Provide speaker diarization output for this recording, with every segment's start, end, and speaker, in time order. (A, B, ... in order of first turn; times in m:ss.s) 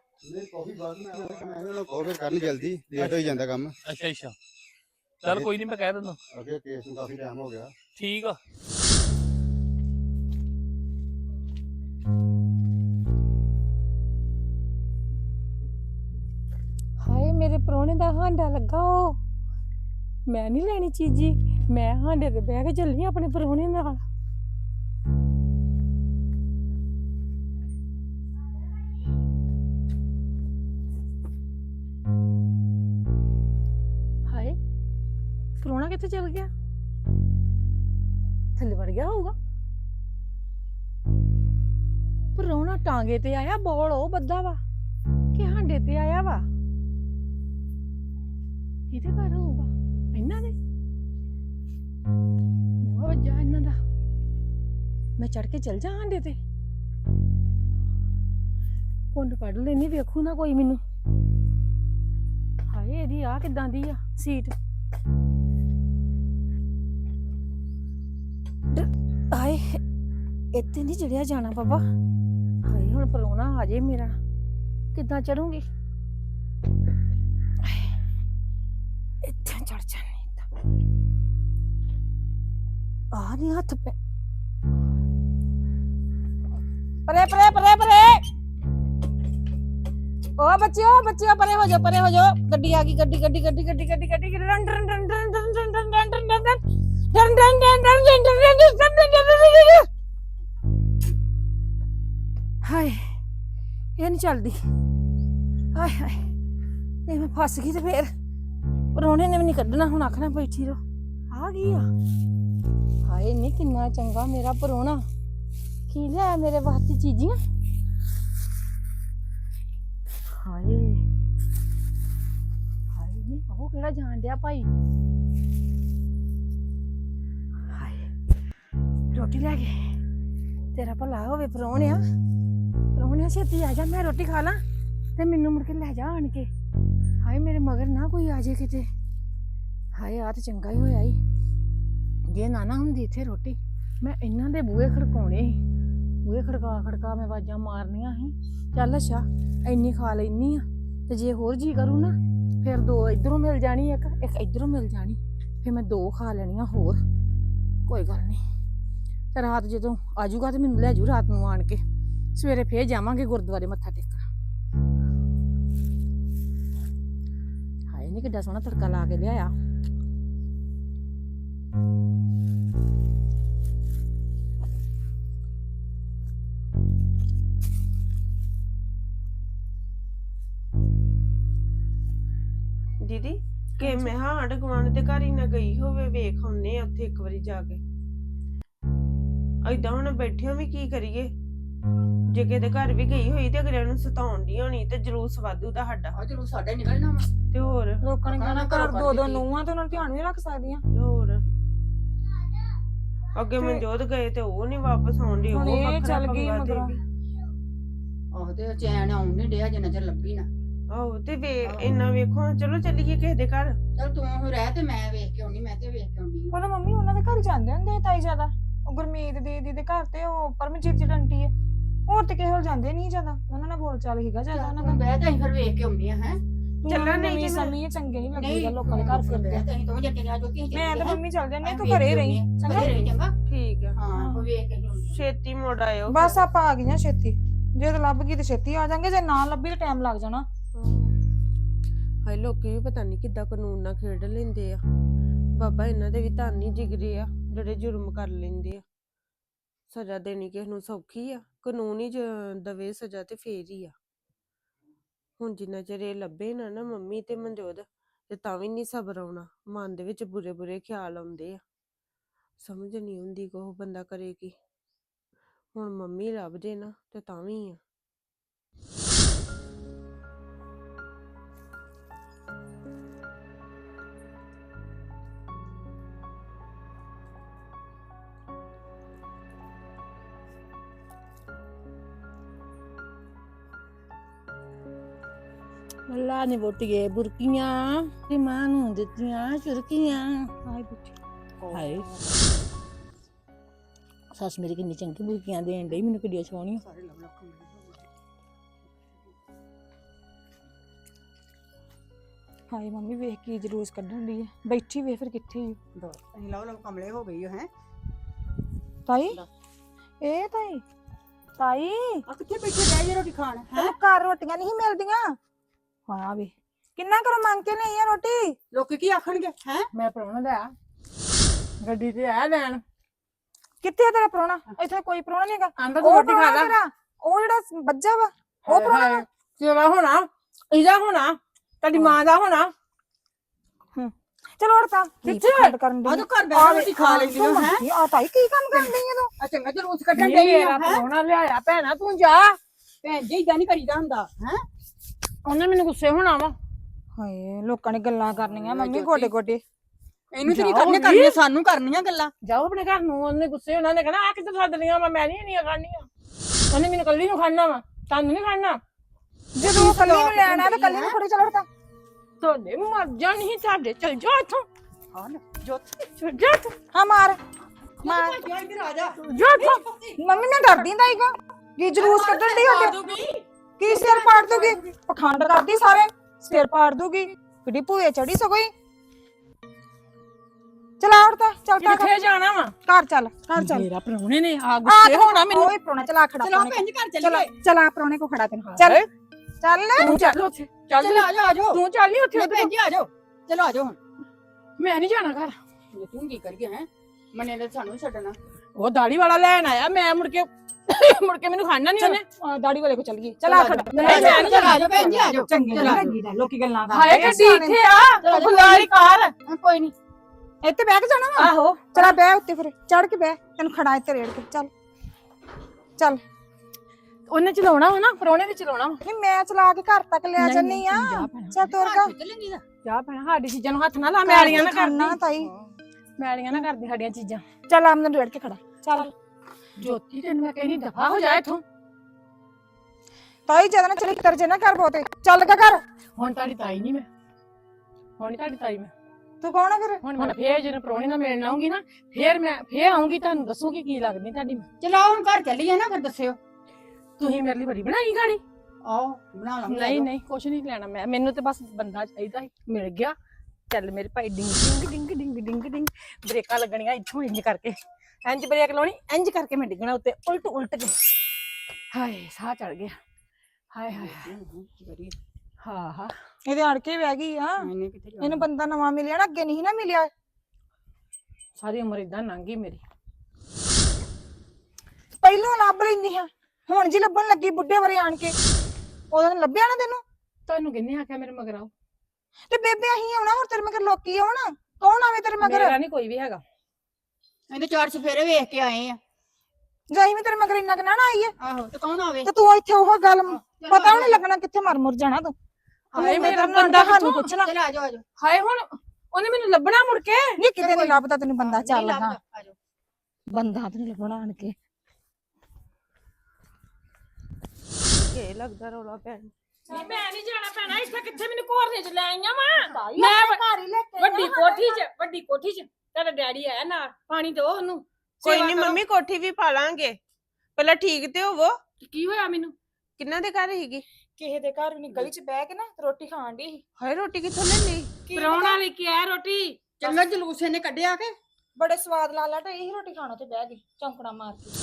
0:00.3-0:03.7 A
0:02.3-0:04.4 B
0:05.2-0:06.2 B
0:05.2-0:05.5 A
0:06.3-0:07.7 A
0:08.0-0:08.4 B
0:17.0-0:19.2 C
0:20.3-0:24.0 C
0:34.3-0:34.6 C
0:35.6-0:36.5 C
0:38.6-0:39.4 C
0:42.4-0:44.6 C
0:45.3-0:46.5 C
0:48.9-0:50.5 C
0:52.8-0:53.8 C
0:55.2-0:56.4 C
0:59.1-1:00.8 C
1:02.7-1:04.5 C
1:08.7-1:09.8 C
1:10.5-1:11.9 C
1:12.6-1:14.2 C
1:14.9-1:15.7 C
1:17.6-1:17.9 C
1:19.2-1:20.5 C
1:23.1-1:24.0 C
1:27.1-1:28.2 C
1:30.4-1:39.9 C
1:42.6-1:43.2 C
1:44.0-1:44.6 C
1:45.7-1:46.3 C
1:47.1-1:48.1 C
1:48.9-1:51.9 C
1:53.0-1:55.0 C
1:55.9-1:57.4 C
2:00.3-2:01.0 C
2:02.9-2:04.7 C
2:07.7-2:08.1 C
2:09.1-2:09.9 C
2:10.7-2:12.0 C
2:12.9-2:14.6 C
2:15.2-2:16.5 C
2:17.2-2:18.9 C
2:19.9-2:21.2 C
2:22.3-2:25.6 C
2:26.2-2:37.0 C
2:37.8-2:38.4 C
2:39.3-2:41.8 C
2:42.4-2:44.3 C
2:47.9-2:49.5 C
3:03.1-3:07.8 D
3:09.6-3:11.3 D
3:12.3-3:16.1 D
3:16.1-3:17.3 E
3:17.5-3:18.0 D
3:18.0-3:20.8 F
3:18.2-3:19.5 E
3:20.9-3:21.4 D
3:23.4-3:27.0 D
3:23.6-3:23.8 F
3:25.5-3:27.0 F
3:28.3-3:30.5 E
3:30.9-3:33.8 D
3:31.6-3:32.0 E
3:34.0-3:36.6 E
3:36.5-3:41.5 F
3:42.1-3:45.0 F
3:44.5-3:46.4 E
3:46.8-3:49.7 F
3:46.9-3:47.8 D
3:48.4-3:53.3 E
3:50.7-3:53.1 F
3:53.5-3:54.0 D
3:54.0-3:55.3 E
3:54.1-3:54.5 F
3:55.1-3:56.4 D
3:56.1-4:00.5 F
4:00.8-4:01.2 D
4:02.2-4:04.8 D
4:05.6-4:08.8 D
4:09.9-4:13.9 D
4:15.4-4:21.6 D
4:22.6-4:24.5 D
4:25.8-4:27.8 D
4:46.1-4:50.5 C
4:50.6-4:51.1 F
4:51.7-4:52.1 C
4:54.3-4:56.8 C
4:56.8-4:58.0 E
5:02.7-5:05.8 F
5:06.0-5:07.7 E
5:09.1-5:09.4 F
5:10.2-5:10.8 F
5:11.6-5:12.2 F
5:12.3-5:14.0 E
5:13.7-5:15.4 F
5:16.1-5:18.6 F
5:18.7-5:19.9 E
5:19.9-5:20.7 C
5:21.8-5:22.8 C
5:23.8-5:29.2 F
5:25.8-5:26.7 C
5:28.7-5:32.7 C
5:34.0-5:39.3 F
5:35.2-5:35.8 C
5:36.0-5:37.9 E
5:38.7-5:41.0 E
5:40.1-5:42.6 C
5:43.0-5:44.6 E
5:45.4-5:46.6 C
5:47.2-5:49.6 F
5:48.3-5:49.3 E
5:50.3-5:52.3 E
5:50.5-5:51.4 C
5:52.4-5:56.1 C
5:56.7-5:58.8 C
5:59.6-6:01.7 F
5:59.6-6:00.6 C
5:59.6-6:01.2 E
6:02.4-6:04.7 C
6:05.1-6:05.9 E
6:06.2-6:06.7 C
6:06.9-6:07.4 F
6:08.0-6:10.2 E
6:08.0-6:08.4 F
6:09.3-6:09.8 C
6:10.2-6:13.0 F
6:11.9-6:14.9 E
6:13.8-6:18.7 F
6:21.0-6:22.2 F
6:21.8-6:22.7 C
6:22.8-6:23.9 F
6:23.6-6:25.7 C
6:24.8-6:29.0 F
6:26.4-6:27.5 E
6:28.7-6:29.1 C
6:29.6-6:30.4 F
6:30.0-6:32.7 C
6:30.9-6:31.8 E
6:32.3-6:34.0 E
6:34.8-6:35.6 C
6:35.9-6:38.4 E
6:38.8-6:42.2 C
6:42.0-6:47.8 F
6:43.4-6:46.2 E
6:43.9-6:45.3 C
6:46.9-6:49.3 C
6:48.2-6:49.9 E
6:48.3-6:48.9 F
6:50.6-6:54.7 F
6:51.4-6:52.2 C
6:57.3-6:59.0 C
6:59.0-7:02.2 F
7:00.4-7:01.6 C
7:01.6-7:02.6 E
7:02.8-7:05.2 C
7:04.2-7:05.5 F
7:06.2-7:07.4 C
7:07.7-7:09.1 F
7:09.8-7:11.6 C
7:13.5-7:15.8 F
7:16.2-7:17.1 C
7:18.2-7:18.9 C
7:19.4-7:20.3 F
7:20.0-7:24.7 C
7:24.8-7:26.4 E
7:27.2-7:28.4 C
7:28.8-7:30.1 E
7:29.6-7:33.2 C
7:33.7-7:41.1 C
7:41.9-7:43.0 C
7:43.7-7:44.3 C
7:44.0-7:45.2 E
7:45.6-7:46.1 C
7:46.4-7:47.7 F
7:47.6-7:48.5 E
7:48.2-7:50.1 F
7:51.6-7:52.8 C
7:55.2-7:58.4 F
7:59.1-8:00.0 F
8:00.5-8:01.7 C
8:02.5-8:05.8 F
8:05.4-8:06.4 C
8:07.5-8:09.0 E
8:09.9-8:11.3 F
8:11.4-8:12.3 E
8:12.2-8:15.4 F
8:13.3-8:14.2 E
8:15.9-8:17.4 C
8:16.0-8:17.5 F
8:17.3-8:18.0 E
8:18.2-8:20.4 C
8:20.4-8:22.2 F
8:20.6-8:22.6 E
8:23.3-8:24.6 F
8:27.9-8:29.3 D
8:29.7-8:30.1 F
8:29.7-8:33.2 C
8:32.6-8:34.9 F
8:34.1-8:38.6 C
8:38.2-8:40.0 D
8:40.6-8:41.6 D
8:41.9-8:42.5 C
8:43.0-8:43.8 D
8:44.2-8:46.6 F
8:46.8-8:48.0 D
8:48.1-8:48.6 F
8:48.2-8:48.6 C
8:49.8-8:51.1 E
8:51.6-8:54.5 F